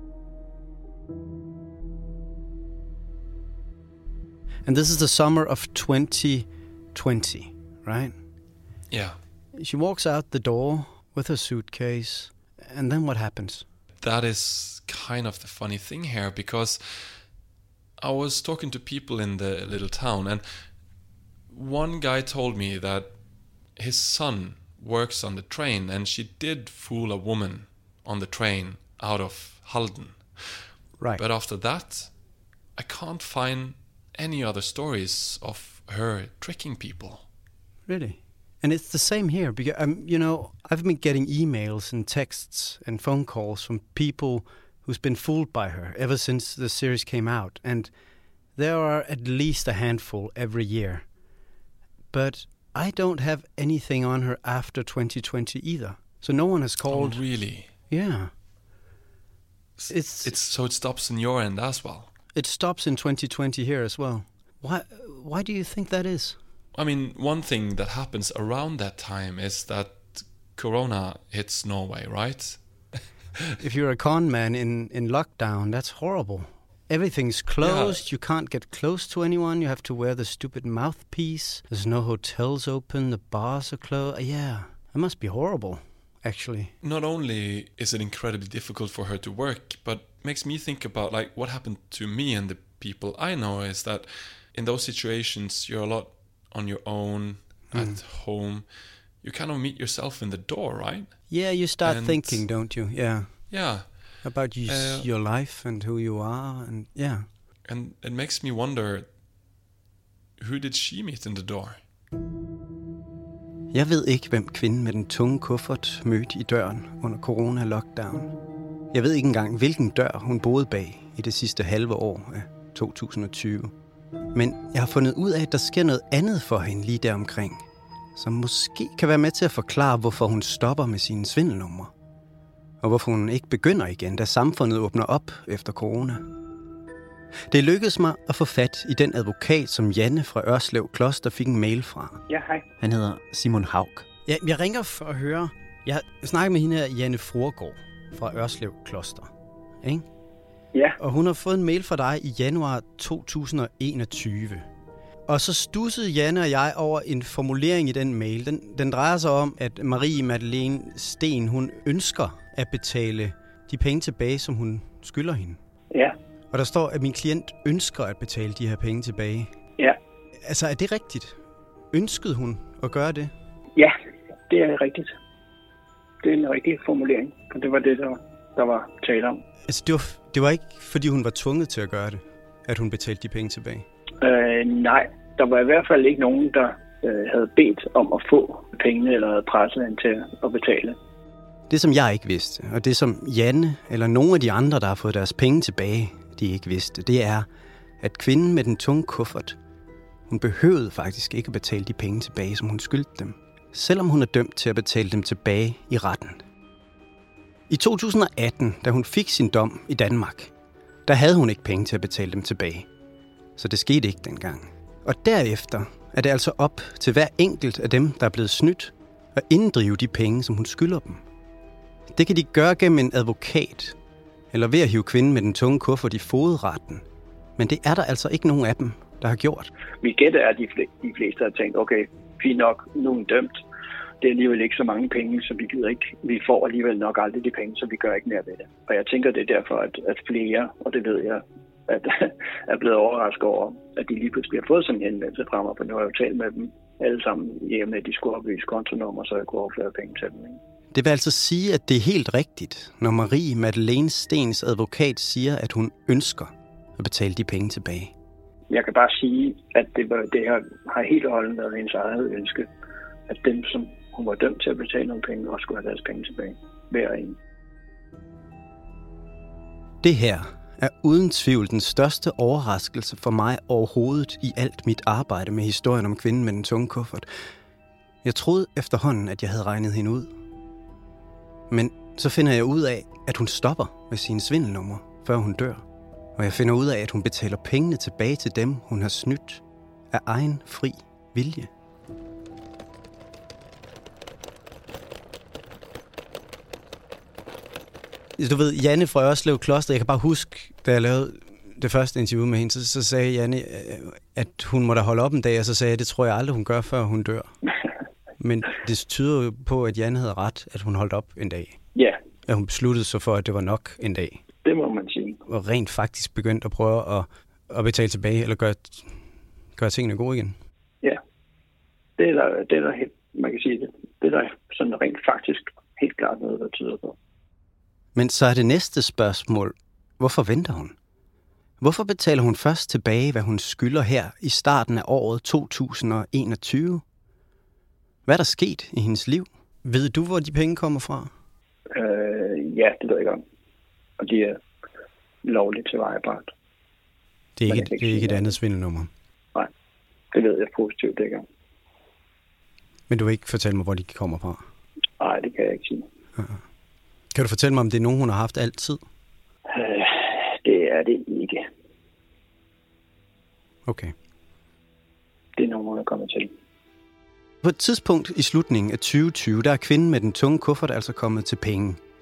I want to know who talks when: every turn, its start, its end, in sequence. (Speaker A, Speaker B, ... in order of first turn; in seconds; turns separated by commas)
Speaker A: 4.7-8.2, Speaker B: 8.9-9.2, Speaker A: 9.5-13.7, Speaker B: 14.0-17.3, Speaker B: 18.0-20.7, Speaker B: 21.5-23.2, Speaker B: 23.7-32.2, Speaker B: 32.8-37.2, Speaker A: 37.9-47.9, Speaker A: 48.5-51.0, Speaker A: 52.1-57.3, Speaker B: 56.9-57.7, Speaker A: 57.9-58.3, Speaker B: 59.8-62.1, Speaker A: 59.9-60.3, Speaker A: 62.3-66.4, Speaker B: 66.7-72.8, Speaker A: 73.6-86.7, Speaker B: 77.6-78.0, Speaker B: 86.8-98.7, Speaker A: 97.7-98.0, Speaker B: 99.2-101.3, Speaker A: 101.3-103.6, Speaker B: 101.8-102.5, Speaker B: 103.5-105.1, Speaker A: 104.2-107.2, Speaker B: 107.6-109.1, Speaker B: 110.4-111.8, Speaker A: 113.7-118.3, Speaker A: 118.9-123.7, Speaker A: 124.3-131.9, Speaker A: 132.8-136.2, Speaker A: 137.5-142.2, Speaker C: 142.3-142.6, Speaker A: 142.8-149.3, Speaker A: 151.0-154.7, Speaker A: 155.3-165.6, Speaker A: 166.5-169.5, Speaker A: 170.4-171.3, Speaker A: 171.9-173.3, Speaker C: 174.5-175.1, Speaker C: 176.2-179.4, Speaker A: 179.7-183.8, Speaker C: 184.2-191.0, Speaker A: 191.7-197.5, Speaker A: 198.0-199.6, Speaker A: 200.3-206.4, Speaker A: 207.7-210.5, Speaker A: 211.1-212.9, Speaker A: 213.6-221.2, Speaker A: 222.1-223.9, Speaker A: 224.5-227.0, Speaker A: 227.6-229.7, Speaker C: 230.0-233.6, Speaker C: 234.2-250.6, Speaker A: 250.9-258.1, Speaker C: 258.7-262.7, Speaker C: 263.3-267.3, Speaker A: 270.0-277.3, Speaker A: 278.2-280.3, Speaker A: 281.7-285.8, Speaker A: 286.4-291.7, Speaker A: 298.4-307.5, Speaker A: 308.4-311.8, Speaker A: 312.4-314.4, Speaker C: 314.6-315.4, Speaker A: 315.5-319.2, Speaker A: 319.8-320.6, Speaker C: 322.2-327.1, Speaker A: 328.1-330.9, Speaker A: 331.8-337.0, Speaker A: 338.2-341.3, Speaker C: 341.9-343.4, Speaker C: 344.2-344.6, Speaker C: 345.4-346.5, Speaker A: 347.6-349.1, Speaker C: 347.7-348.5, Speaker C: 350.3-351.4, Speaker A: 353.1-354.6, Speaker C: 355.2-356.0, Speaker A: 356.4-356.6, Speaker A: 357.3-359.0, Speaker C: 359.7-361.6, Speaker A: 363.9-364.1, Speaker C: 365.6-366.5, Speaker A: 367.6-372.0